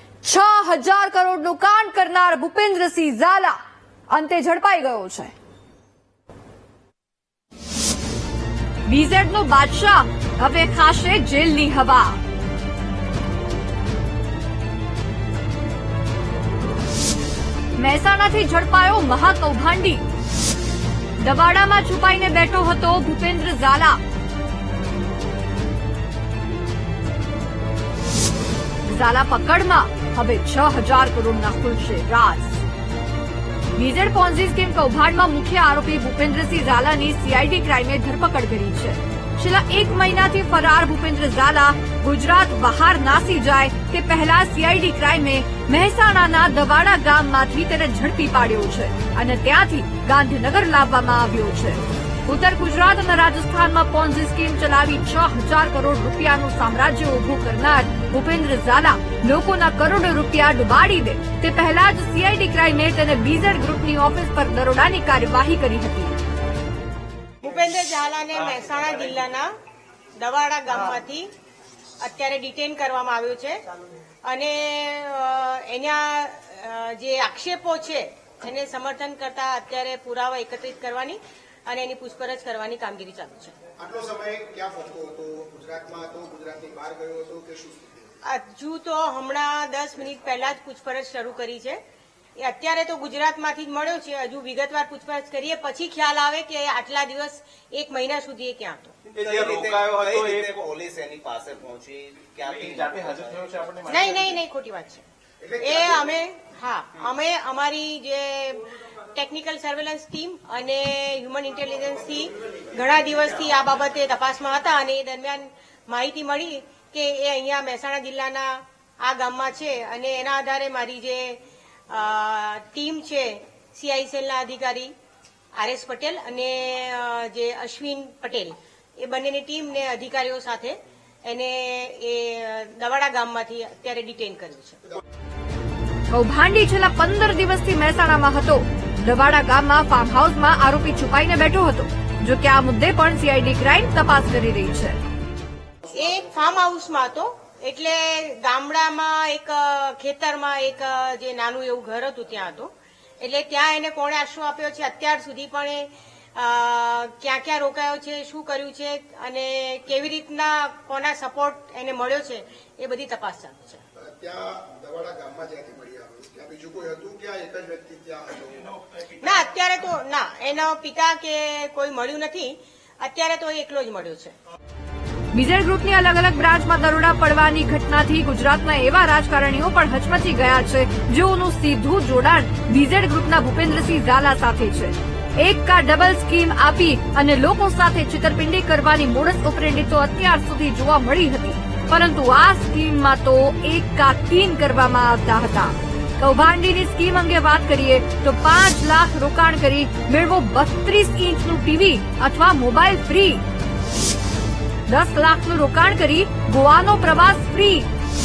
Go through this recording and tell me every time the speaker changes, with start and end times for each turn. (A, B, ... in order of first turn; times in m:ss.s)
0:00.2-0:03.6 A
0:04.1-0:05.3 A
0:08.9-0:12.2 A
0:17.8-0:20.0 A
0:21.2-0:24.0 A
0:28.8-0:32.6 A
0:33.8-1:06.2 A
1:07.4-1:09.5 B
1:10.2-1:11.3 B
1:12.0-1:13.6 B
1:14.3-1:23.6 B
1:23.8-1:28.1 C
1:28.2-1:31.8 B
1:32.4-1:39.0 B
1:39.1-1:40.7 D
1:39.2-1:43.6 E
1:42.6-1:44.3 D
1:43.9-1:45.1 B
1:45.4-1:45.8 C
1:45.6-2:04.9 B
2:05.6-2:10.8 B
2:11.3-2:14.8 B
2:16.1-2:25.0 A
2:25.9-2:43.8 B
2:44.0-2:48.8 C
2:49.2-2:54.3 B
2:55.3-3:23.4 A
3:24.9-3:27.9 A